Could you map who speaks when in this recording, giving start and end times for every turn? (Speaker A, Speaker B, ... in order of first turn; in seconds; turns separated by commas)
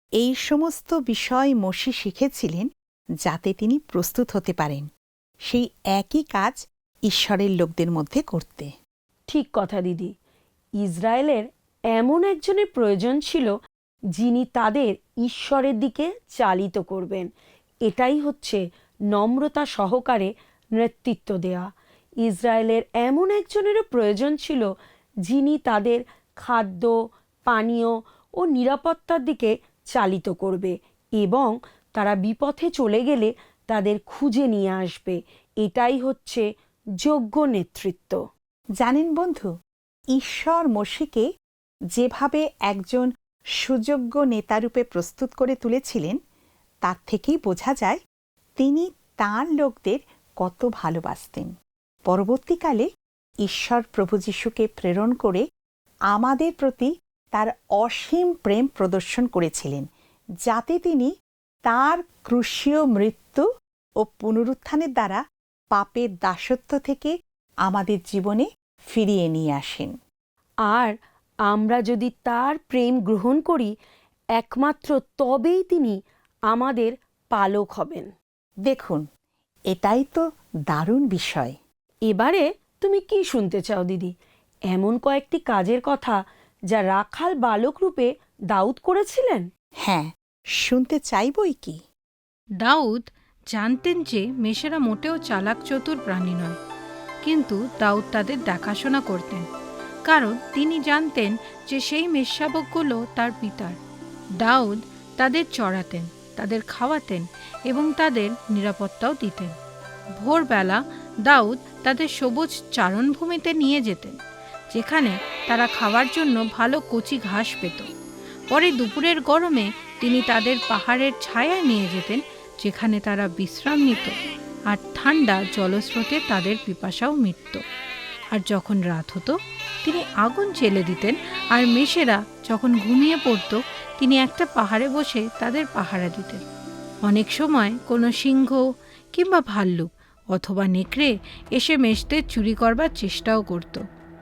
Speaker A: 0.2-2.7, Speaker A: 3.2-4.9, Speaker A: 5.5-8.7, Speaker B: 9.3-10.1, Speaker B: 10.8-13.5, Speaker B: 14.2-17.3, Speaker B: 17.9-18.6, Speaker B: 19.1-21.7, Speaker B: 22.2-24.7, Speaker B: 25.3-26.9, Speaker B: 27.5-36.5, Speaker B: 37.0-38.2, Speaker A: 38.8-39.5, Speaker A: 40.1-41.3, Speaker A: 41.9-43.1, Speaker A: 43.6-46.2, Speaker A: 46.8-48.0, Speaker A: 48.6-51.5, Speaker A: 52.1-52.9, Speaker A: 53.4-55.4, Speaker A: 56.1-59.9, Speaker A: 60.5-61.1, Speaker A: 61.7-63.4, Speaker A: 64.0-65.2, Speaker A: 65.7-67.1, Speaker A: 67.6-69.9, Speaker B: 71.5-73.7, Speaker B: 74.4-76.0, Speaker B: 76.5-78.1, Speaker A: 78.6-79.0, Speaker A: 79.7-81.6, Speaker B: 82.1-84.1, Speaker B: 84.7-86.2, Speaker B: 86.7-89.4, Speaker A: 89.8-91.8, Speaker C: 92.6-96.6, Speaker C: 97.2-99.4, Speaker C: 100.1-103.8, Speaker C: 104.4-109.5, Speaker C: 110.2-114.2, Speaker C: 114.7-117.9, Speaker C: 118.5-124.1, Speaker C: 124.7-127.6, Speaker C: 128.3-136.4, Speaker C: 137.0-138.6, Speaker C: 139.1-143.8